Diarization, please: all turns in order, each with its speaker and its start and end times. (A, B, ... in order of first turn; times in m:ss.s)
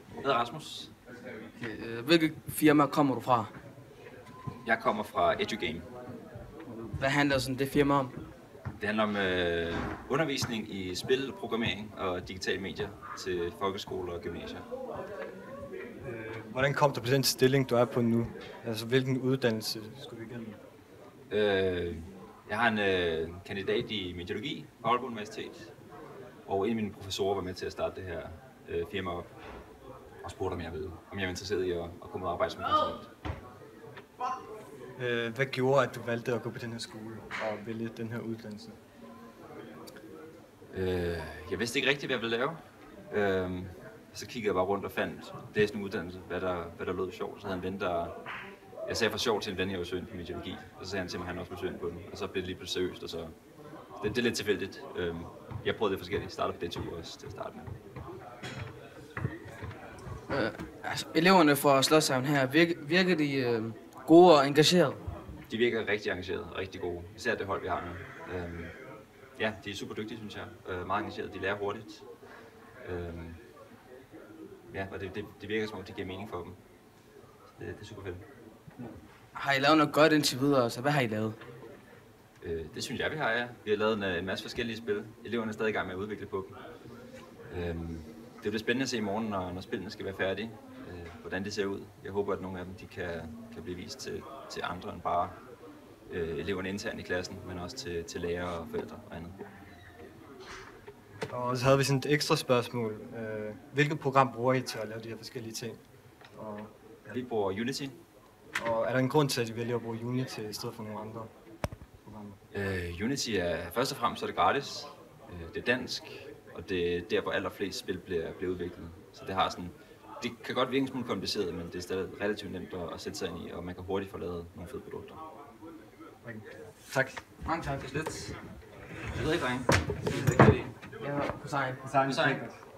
0:00.2-0:00.9 A
0:01.6-0:03.5 B
0:04.6-0:05.9 A
0:06.7-0:08.1 B
0:08.8-0:14.6 A
0:16.0-0:20.6 C
0:21.3-0:25.7 A
0:26.5-0:29.3 A
0:30.2-0:33.1 A
0:35.0-0:38.8 C
0:40.7-0:42.6 A
0:43.1-0:48.1 A
0:48.9-0:53.3 A
0:54.0-0:57.7 A
1:00.3-1:05.0 B
1:05.5-1:08.7 A
1:09.4-1:12.0 A
1:12.8-1:13.4 A
1:14.7-1:16.6 A
1:17.6-1:18.2 A
1:19.4-1:21.4 B
1:22.4-1:26.6 A
1:27.5-1:35.4 A
1:36.1-1:39.4 A
1:41.3-1:45.8 C
1:46.3-1:47.1 C
1:47.1-1:48.0 A
1:48.6-1:51.3 C
1:52.0-1:52.4 C
1:52.5-2:05.2 A
2:06.2-2:07.2 C
2:07.5-2:07.9 B
2:07.7-2:08.4 A
2:09.1-2:10.7 A
2:11.0-2:11.9 B
2:11.8-2:12.5 C
2:12.0-2:12.4 A